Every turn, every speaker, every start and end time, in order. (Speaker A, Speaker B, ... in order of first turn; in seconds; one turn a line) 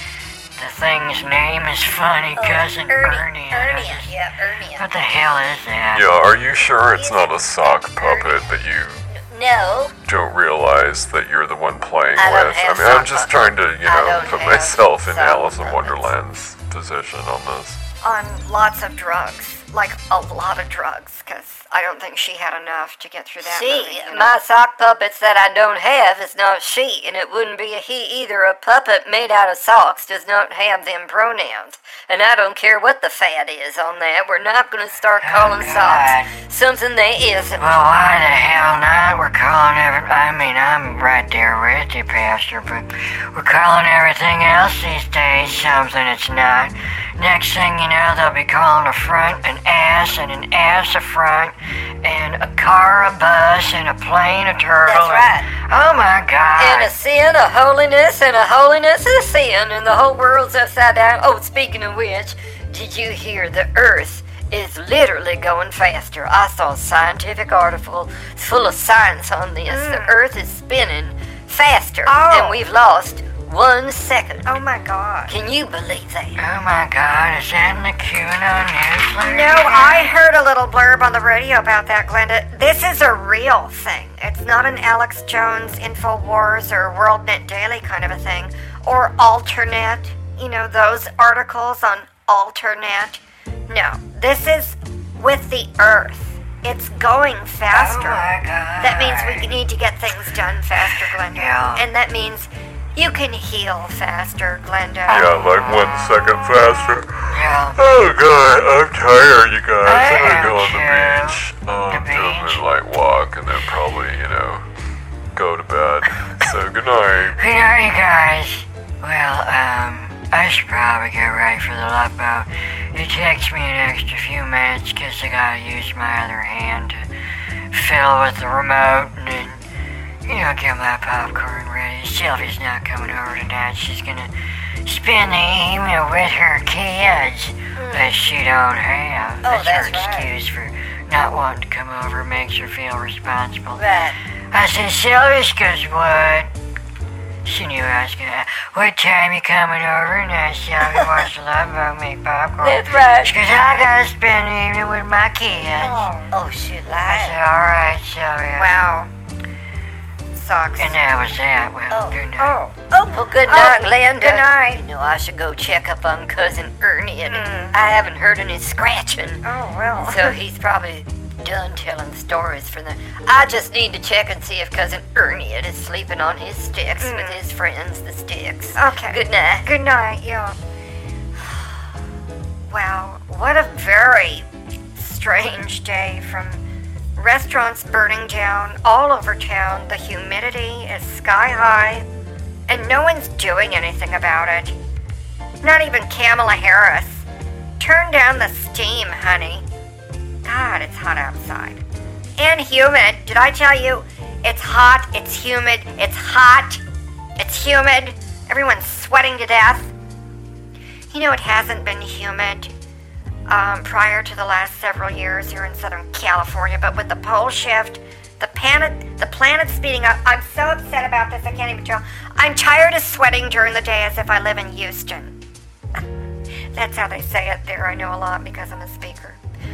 Speaker A: 0.6-4.2
Speaker B: 2.4-4.9
Speaker A: 4.8-6.1
Speaker C: 5.9-9.1
Speaker B: 7.0-8.5
Speaker B: 9.1-9.9
Speaker C: 10.1-17.8
Speaker B: 12.2-16.1
Speaker D: 18.0-24.3
Speaker B: 23.4-37.7
Speaker A: 35.2-36.4
Speaker A: 37.6-56.9
Speaker B: 54.9-55.5
Speaker B: 56.6-74.6
Speaker D: 69.7-70.2
Speaker D: 72.1-72.6
Speaker D: 74.5-75.3
Speaker B: 75.3-76.4
Speaker A: 76.4-80.2
Speaker D: 79.2-105.4
Speaker A: 97.7-99.6
Speaker A: 100.8-101.9
Speaker C: 105.1-114.7
Speaker A: 105.1-105.9
Speaker A: 107.3-107.8
Speaker A: 109.8-112.6
Speaker C: 115.3-117.4
Speaker A: 117.3-127.1
Speaker A: 127.7-129.6
Speaker A: 130.3-143.8
Speaker B: 137.8-138.1
Speaker B: 139.4-140.3
Speaker B: 143.8-144.2
Speaker A: 144.5-146.5
Speaker A: 147.4-156.1
Speaker B: 152.6-153.4
Speaker D: 155.7-156.3
Speaker B: 156.3-157.4
Speaker A: 156.9-158.8
Speaker D: 158.6-159.1
Speaker D: 160.3-161.0
Speaker A: 160.8-162.6
Speaker B: 161.9-162.2
Speaker D: 162.4-164.8
Speaker B: 163.1-169.4
Speaker D: 167.3-167.8
Speaker D: 169.4-170.4
Speaker B: 170.0-179.7
Speaker D: 177.0-177.4
Speaker D: 178.8-180.6
Speaker D: 182.7-186.6
Speaker D: 187.2-192.1
Speaker D: 192.7-194.8
Speaker D: 195.6-197.2
Speaker D: 197.8-199.7
Speaker D: 200.4-201.8
Speaker D: 202.4-206.8
Speaker D: 207.4-209.9
Speaker D: 211.1-212.7
Speaker D: 213.5-225.4
Speaker D: 226.8-229.4